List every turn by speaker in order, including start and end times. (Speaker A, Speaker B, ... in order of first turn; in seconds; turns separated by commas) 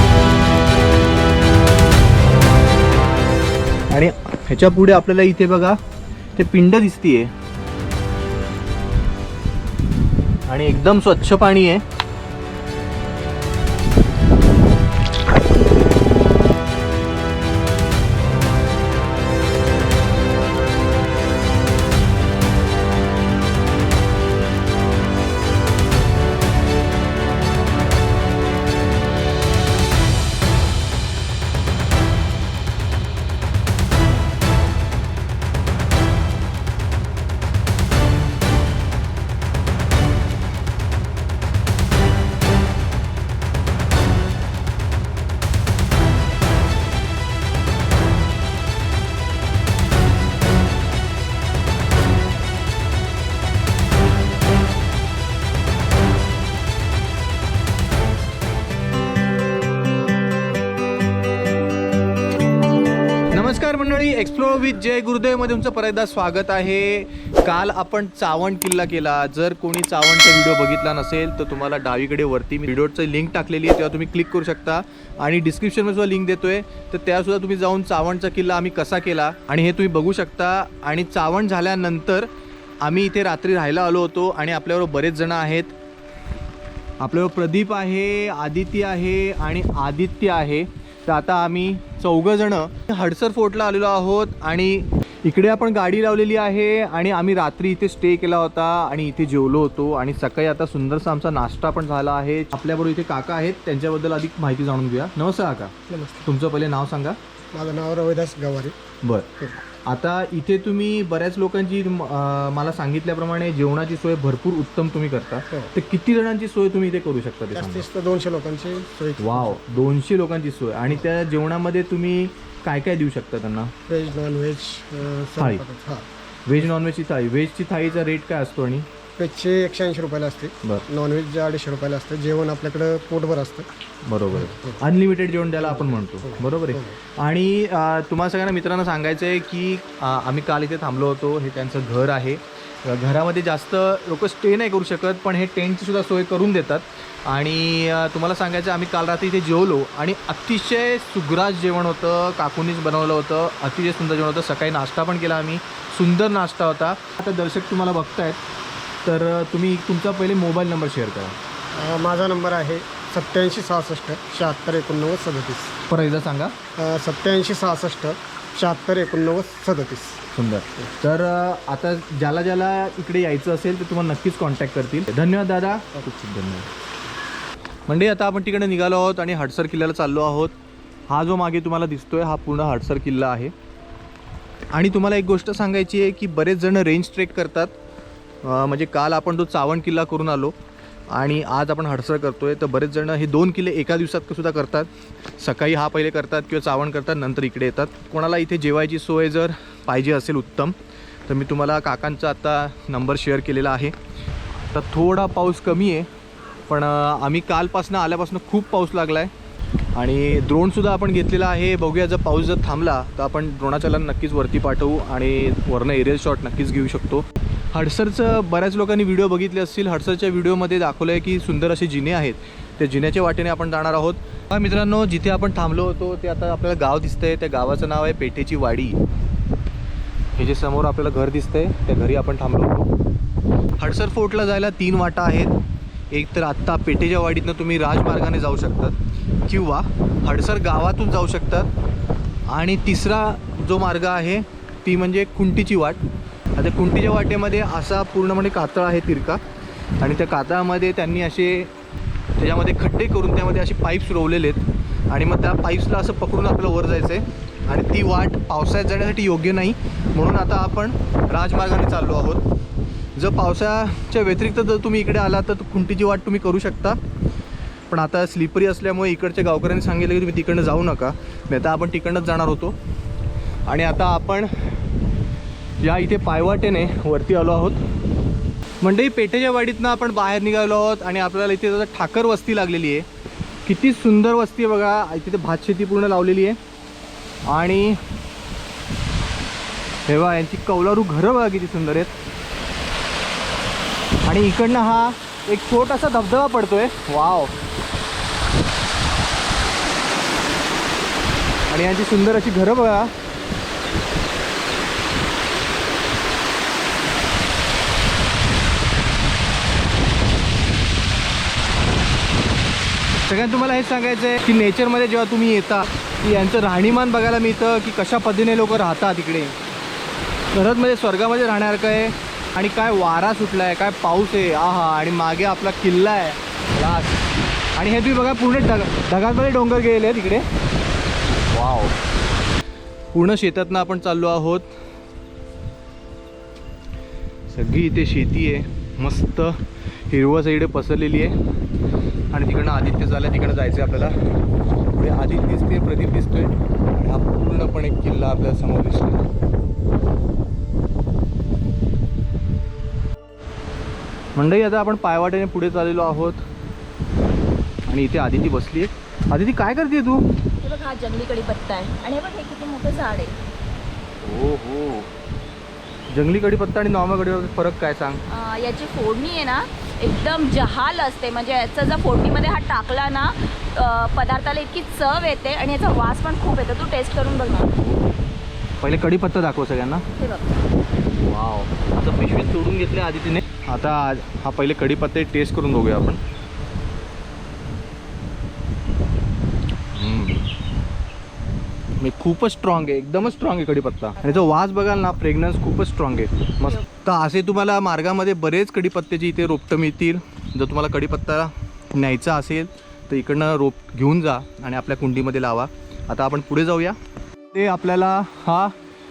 Speaker A: 3.9-5.8, Speaker A: 6.3-7.3, Speaker A: 10.5-11.8, Speaker A: 63.3-82.3, Speaker A: 82.8-85.7, Speaker A: 87.0-105.7, Speaker B: 105.9-106.3, Speaker A: 106.2-107.2, Speaker B: 107.5-108.8, Speaker A: 109.0-117.9, Speaker B: 117.5-119.6, Speaker A: 119.2-123.7, Speaker B: 123.9-126.1, Speaker A: 125.4-125.6, Speaker A: 126.5-128.9, Speaker B: 129.2-133.7, Speaker A: 134.0-158.4, Speaker B: 134.3-134.8, Speaker B: 135.7-136.9, Speaker A: 159.0-161.3, Speaker B: 161.7-165.8, Speaker A: 165.9-166.6, Speaker B: 166.8-170.2, Speaker A: 170.3-176.7, Speaker A: 177.9-180.6, Speaker A: 181.1-183.5, Speaker A: 184.7-187.7, Speaker A: 188.4-190.6, Speaker A: 191.1-203.9, Speaker A: 204.7-206.1, Speaker A: 206.7-209.3, Speaker A: 209.9-229.0, Speaker A: 230.3-232.9, Speaker A: 233.8-235.5, Speaker A: 236.1-241.7, Speaker A: 242.5-246.0, Speaker A: 246.6-249.4, Speaker A: 250.0-251.7, Speaker A: 252.4-262.4, Speaker A: 263.1-267.0, Speaker A: 267.9-272.8, Speaker A: 273.7-274.5, Speaker A: 275.8-277.8, Speaker A: 278.8-283.1, Speaker A: 283.6-286.6, Speaker A: 287.5-288.0, Speaker A: 290.1-292.1, Speaker A: 294.2-297.5, Speaker A: 301.7-303.1, Speaker A: 313.2-319.6, Speaker A: 320.5-327.2, Speaker A: 327.8-330.4, Speaker A: 331.3-332.0, Speaker A: 333.1-334.7, Speaker A: 337.5-341.3, Speaker A: 342.3-344.1, Speaker A: 344.9-349.3, Speaker A: 354.4-356.4, Speaker A: 357.9-360.2, Speaker C: 360.6-363.3, Speaker A: 364.2-365.1, Speaker A: 366.1-368.2, Speaker C: 368.3-377.7, Speaker A: 377.8-378.1, Speaker A: 378.8-380.0, Speaker C: 380.2-380.5, Speaker A: 381.2-386.2, Speaker A: 389.9-390.5, Speaker A: 392.0-407.0, Speaker A: 407.5-408.7